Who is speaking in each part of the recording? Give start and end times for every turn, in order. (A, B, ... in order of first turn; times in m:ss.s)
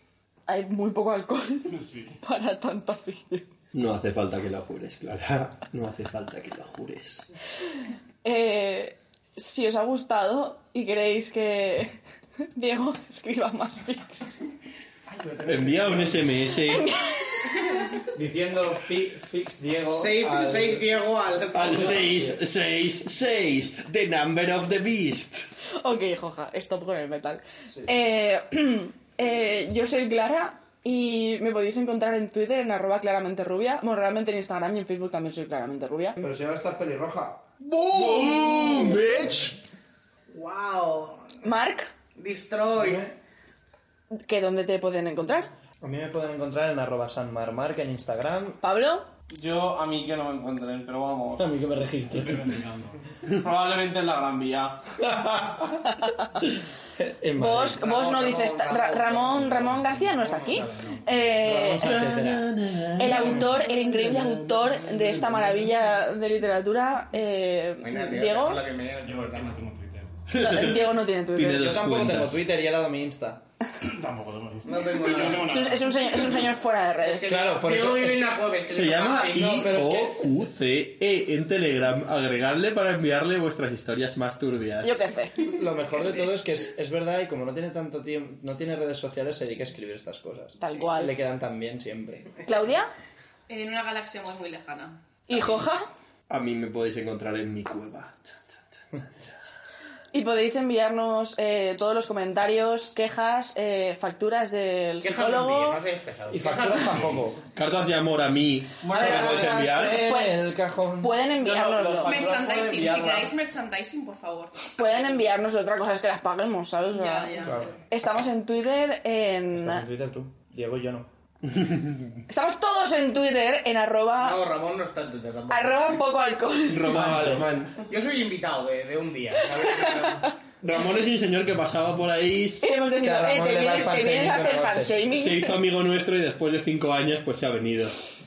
0:00.5-0:03.5 A
0:01.7-0:02.1 B
0:03.7-0:07.3 C
0:08.2-0:12.0 A
0:12.5-0:14.4 A
0:15.1-0:16.2 D
0:15.4-0:16.9 C
0:16.7-0:17.8 A
0:18.1-0:20.8 D
0:19.9-0:22.0 E
0:21.5-0:25.5 C
0:21.6-0:22.4 D
0:25.8-0:36.2 A
0:36.2-0:37.5 D
0:37.6-0:39.5 C
0:38.0-0:39.2 D
0:40.3-0:41.4 E
0:41.4-0:41.9 A
0:42.1-0:43.1 E
0:42.8-0:43.1 D
0:44.1-0:45.5 A
0:45.8-0:48.6 D
0:48.6-0:49.1 A
0:49.3-0:51.5 F
0:51.4-0:52.4 D
0:52.0-0:53.0 B
0:53.4-0:54.8 F
0:55.2-0:55.7 D
0:57.0-0:57.9 D
0:57.4-1:02.0 A
0:58.1-0:58.9 E
0:59.3-0:59.7 D
0:59.8-1:01.1 E
1:01.4-1:02.5 D
1:01.8-1:03.4 C
1:03.0-1:08.6 A
1:03.4-1:05.4 D
1:07.8-1:09.6 E
1:09.0-1:10.1 B
1:10.3-1:12.4 C
1:10.4-1:11.7 A
1:11.5-1:13.4 D
1:13.8-1:16.2 B
1:14.6-1:15.5 E
1:15.4-1:17.3 A
1:17.0-1:20.1 E
1:17.3-1:18.3 D
1:18.7-1:25.1 C
1:24.8-1:25.5 A
1:25.4-1:32.3 D
1:30.6-1:31.1 A
1:32.4-1:32.9 A
1:33.5-1:35.5 G
1:35.3-1:35.8 A
1:36.3-1:38.6 C
1:40.1-1:45.8 A
1:45.0-1:47.2 E
1:46.3-1:47.4 D
1:47.5-1:50.0 C
1:48.8-1:53.3 D
1:49.9-1:50.4 A
1:51.0-1:52.3 A
1:52.0-1:55.0 G
1:54.8-1:59.8 A
1:56.9-1:57.7 G
1:57.4-1:57.7 D
1:59.5-2:01.1 D
2:01.6-2:02.0 C
2:02.3-2:04.4 A
2:04.2-2:06.0 E
2:05.5-2:07.2 A
2:06.7-2:07.8 C
2:07.0-2:10.3 E
2:10.6-2:12.6 C
2:12.6-2:15.6 A
2:13.0-2:15.0 D
2:15.1-2:17.9 C